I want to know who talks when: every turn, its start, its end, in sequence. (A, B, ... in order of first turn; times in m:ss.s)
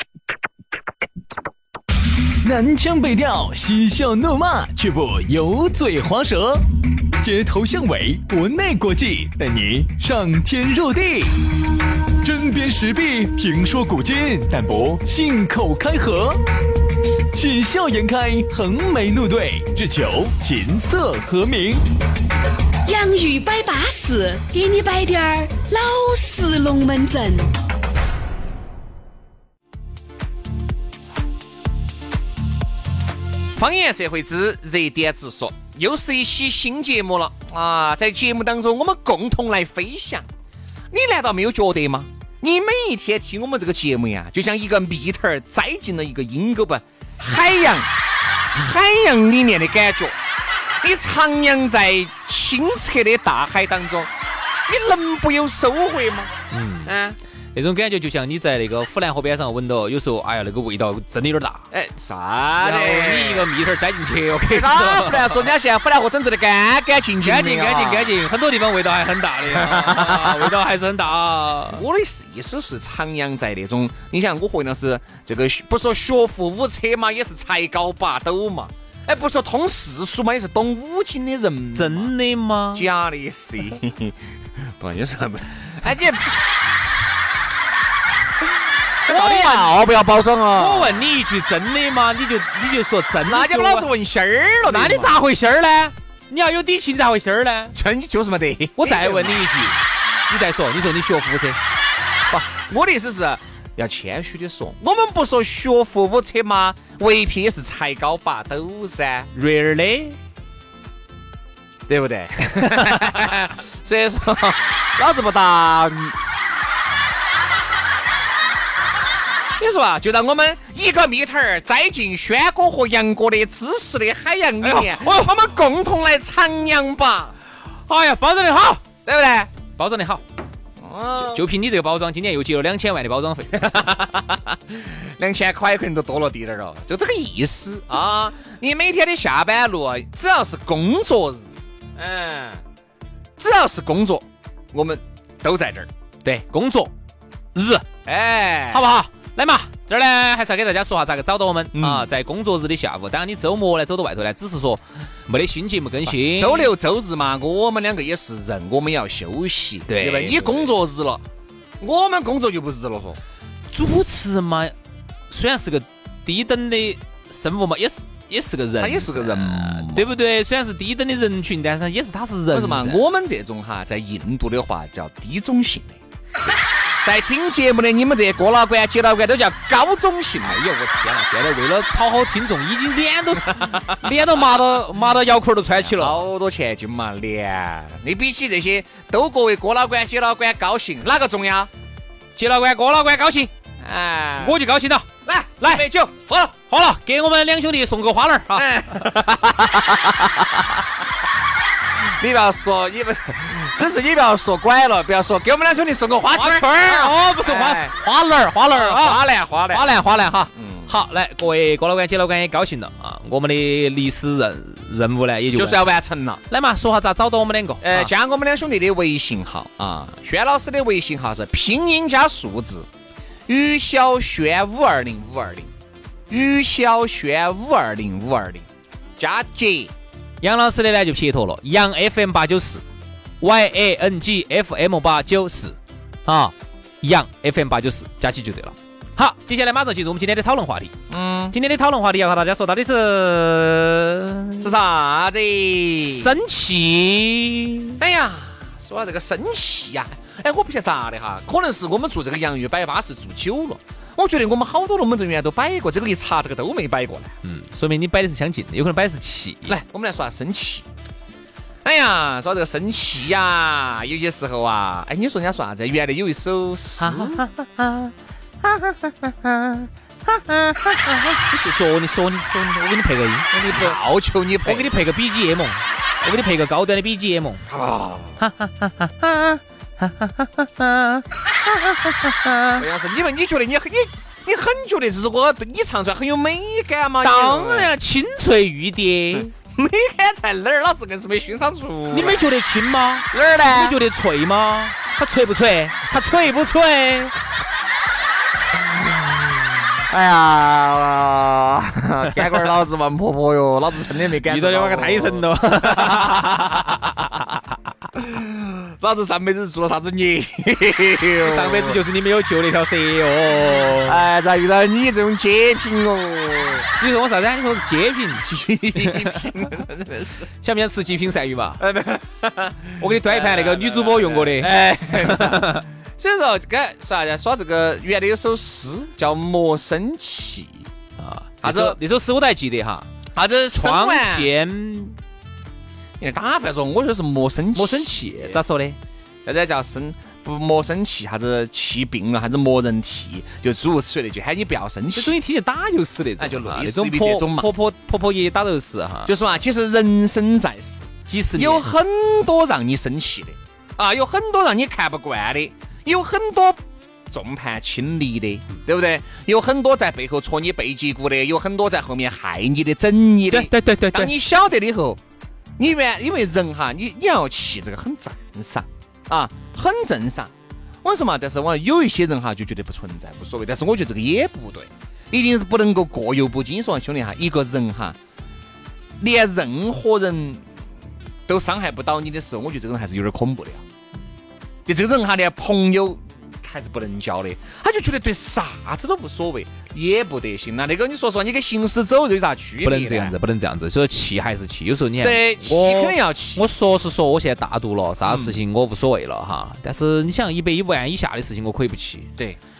0:02.4-0:06.7 A
0:07.2-0:11.4 A
0:12.2-0:16.4 A
0:17.3-0:21.8 A
0:22.8-0:27.5 B
0:33.6-0:40.3 C
0:40.9-0:47.9 C
0:48.5-0:50.2 C
0:50.8-0:54.1 C
0:54.7-0:56.3 C
0:56.5-0:56.9 D
0:56.8-0:57.2 C
0:57.5-1:01.6 D
1:01.7-1:03.5 C
1:02.6-1:05.5 D
1:04.5-1:08.1 C
1:07.2-1:11.8 D
1:09.5-1:10.5 C
1:11.7-1:22.1 C
1:21.8-1:22.9 D
1:22.7-1:24.2 C
1:24.8-1:26.4 C
1:29.1-1:31.1 C
1:29.1-1:29.7 D
1:30.5-1:33.9 D
1:33.2-1:35.2 C
1:34.7-1:37.8 D
1:37.7-1:39.5 C
1:38.8-1:41.6 D
1:42.3-1:49.3 C
1:49.3-1:50.2 D
1:51.9-1:56.2 C
1:59.6-2:07.3 C
2:04.6-2:05.3 D
2:07.9-2:08.8 D
2:09.1-2:09.5 C
2:09.8-2:10.2 D
2:10.8-2:11.4 C
2:11.2-2:13.8 D
2:13.6-2:22.6 C
2:23.4-2:25.9 C
2:26.2-2:26.9 D
2:27.6-2:27.8 D
2:28.0-2:28.9 C
2:28.7-2:36.7 D
2:31.7-2:32.1 C
2:36.1-2:41.2 C
2:39.9-2:40.7 D
2:41.8-2:43.2 C
2:43.7-2:44.7 D
2:45.3-2:53.0 D
2:48.8-2:50.1 C
2:52.5-2:56.0 C
2:57.0-3:00.6 C
3:00.4-3:06.2 D
3:05.8-3:11.7 C
3:12.4-3:13.5 D
3:13.8-3:14.6 C
3:14.4-3:15.1 D
3:15.2-3:16.5 C
3:16.7-3:18.9 D
3:18.6-3:20.3 C
3:22.0-3:27.9 C
3:26.3-3:35.9 D
3:28.7-3:29.9 C
3:30.6-3:30.9 C
3:35.5-3:36.4 C
3:36.5-3:38.1 D
3:37.8-3:42.9 C
3:43.5-3:45.7 C
3:46.3-3:48.7 C
3:49.2-3:49.9 C
3:50.4-3:52.8 D
3:53.4-4:00.9 D
4:01.1-4:01.6 C
4:01.5-4:04.7 D
4:04.6-4:06.3 C
4:06.0-4:08.0 D
4:08.0-4:17.3 C
4:17.4-4:19.8 D
4:19.7-4:20.9 C
4:21.8-4:27.4 C
4:27.0-4:34.0 D
4:33.7-4:34.9 C
4:34.6-4:37.6 D
4:37.7-4:38.4 C
4:38.4-4:42.8 D
4:42.8-4:47.9 C
4:47.2-4:49.5 D
4:49.3-4:52.5 C
4:52.1-4:57.4 D
4:53.3-4:54.0 C
5:00.1-5:06.3 C
5:04.4-5:07.2 D
5:08.2-5:12.0 C
5:11.4-5:14.2 D
5:13.7-5:16.9 C
5:17.0-5:18.4 D
5:18.4-5:20.4 C
5:19.0-5:19.5 D
5:20.6-5:21.8 D
5:21.8-5:30.9 C
5:23.0-5:25.8 D
5:31.2-5:33.1 D
5:31.6-5:32.0 C
5:33.4-5:34.5 C
5:33.7-5:35.2 D
5:36.2-5:38.6 C
5:37.8-5:39.0 D
5:39.4-5:45.3 C
5:45.1-5:49.3 D
5:46.4-5:47.7 C
5:49.2-6:05.2 C
5:51.3-5:51.9 D
6:03.5-6:04.3 D
6:05.8-6:10.5 C
6:11.0-6:18.2 C
6:19.2-6:20.6 C
6:21.5-6:23.8 C
6:24.9-6:33.4 C
6:32.8-6:42.3 D
6:35.2-6:36.6 C
6:38.2-6:38.6 C